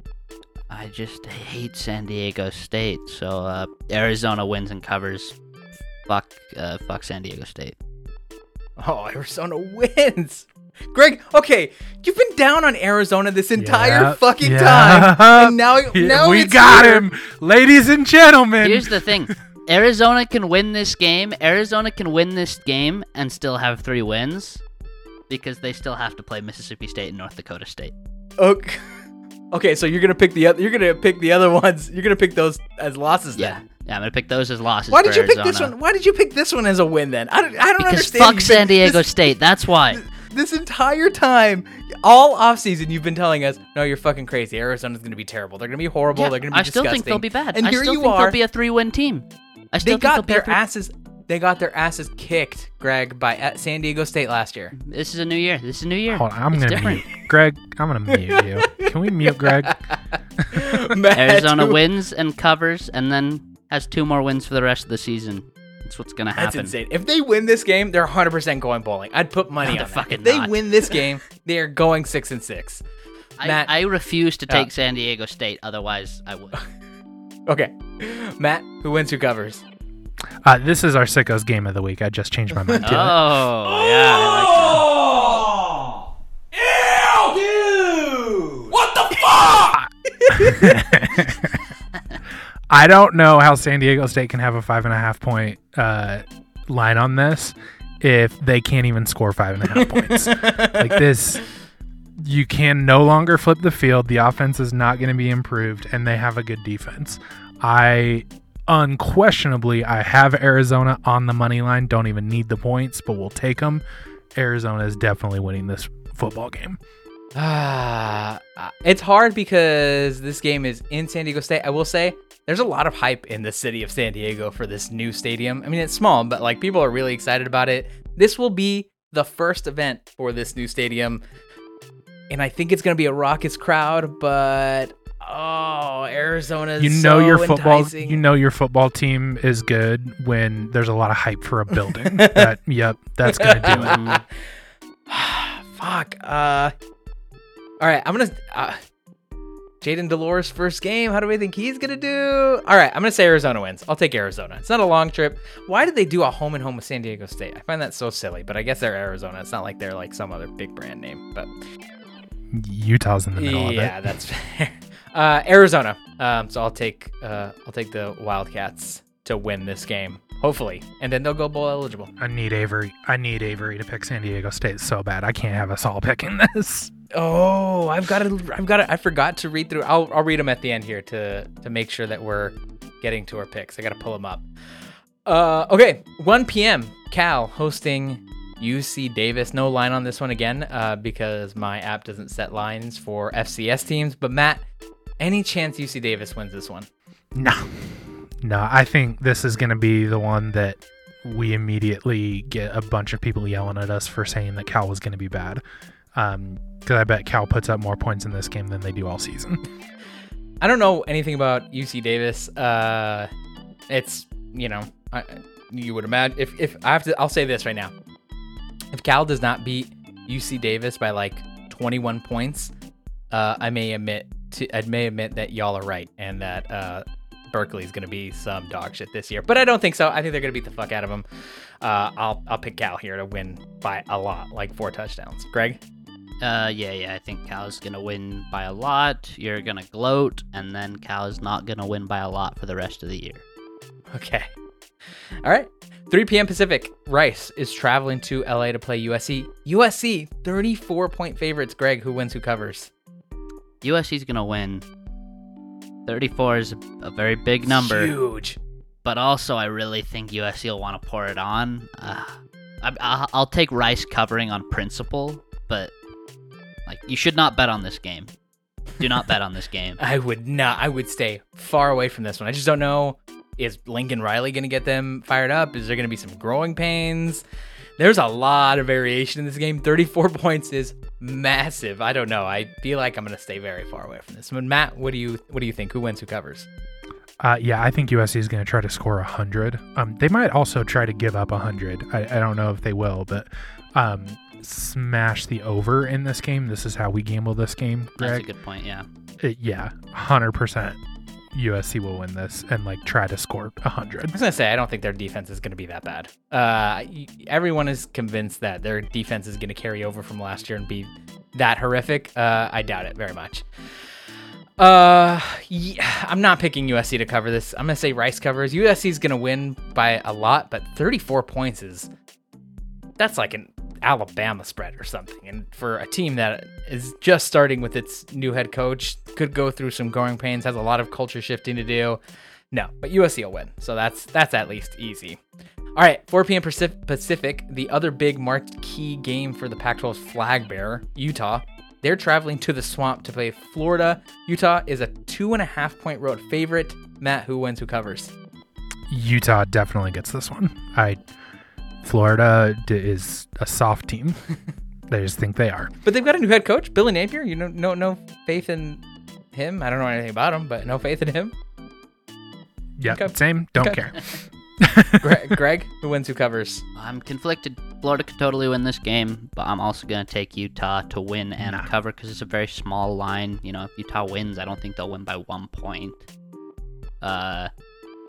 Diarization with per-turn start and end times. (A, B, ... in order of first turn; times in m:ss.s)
0:00.7-0:05.4 A
0:06.0-0:07.7 A
0:08.8-0:17.0 B
0:13.6-0:19.3 C
0:18.6-0:24.6 A
0:25.3-0:27.9 A
0:28.4-0:33.6 B
0:33.4-0:35.7 A
0:34.9-0:39.1 B
0:37.8-0:40.0 A
0:39.9-0:48.4 B
0:46.2-0:50.6 A
0:49.8-0:54.7 B
0:54.8-0:57.1 A
0:56.1-0:59.8 C
0:58.3-1:01.8 B
1:00.4-1:00.7 C
1:01.1-1:06.7 A
1:06.4-1:12.8 B
1:09.6-1:11.0 A
1:13.4-1:16.6 A
1:13.4-1:13.7 B
1:17.5-1:19.6 B
1:20.4-1:23.4 C
1:22.8-1:25.4 A
1:29.2-1:31.0 B
1:30.3-1:31.6 C
1:32.7-1:41.4 C
1:39.7-1:41.0 B
1:42.2-1:53.8 C
1:54.3-1:56.8 C
1:57.4-2:11.2 B
2:12.3-2:18.2 B
2:16.8-2:24.0 C
2:22.0-2:22.5 B
2:23.2-2:24.2 B
2:23.6-2:24.2 A
2:25.1-2:26.7 B
2:27.8-2:28.8 B
2:29.8-2:41.5 B
2:42.5-2:44.0 C
2:43.4-2:52.1 B
2:52.2-2:56.9 C
2:57.1-3:04.4 B
3:05.2-3:14.6 B
3:15.2-3:16.9 B
3:17.3-3:25.6 C
3:26.1-3:29.6 C
3:30.6-3:33.3 B
3:33.9-3:37.9 B
3:38.9-3:42.7 B
3:43.3-3:51.2 B
3:51.8-3:55.8 B
3:56.4-4:03.4 A
4:04.1-4:04.5 B
4:05.4-4:12.9 B
4:13.8-4:14.8 A
4:16.0-4:18.1 A
4:17.6-4:18.6 B
4:19.0-4:25.9 A
4:26.8-4:28.3 A
4:29.0-4:30.0 A
4:30.0-4:37.4 B
4:38.0-4:46.7 B
4:47.4-4:58.5 C
4:58.2-4:59.1 A
4:59.4-5:01.0 C
5:01.5-5:04.3 C
5:04.3-5:13.6 B
5:14.8-5:22.1 B
5:23.2-5:32.2 B
5:32.7-5:35.4 B
5:36.0-5:48.3 B
5:49.1-5:51.2 C
5:52.0-5:54.4 C
5:55.1-5:55.9 C
5:56.0-6:01.5 B
6:03.0-6:04.3 C
6:03.1-6:04.1 B
6:04.8-6:05.5 C
6:05.2-6:06.8 B
6:06.9-6:16.2 A
6:11.6-6:11.9 C
6:17.2-6:17.7 A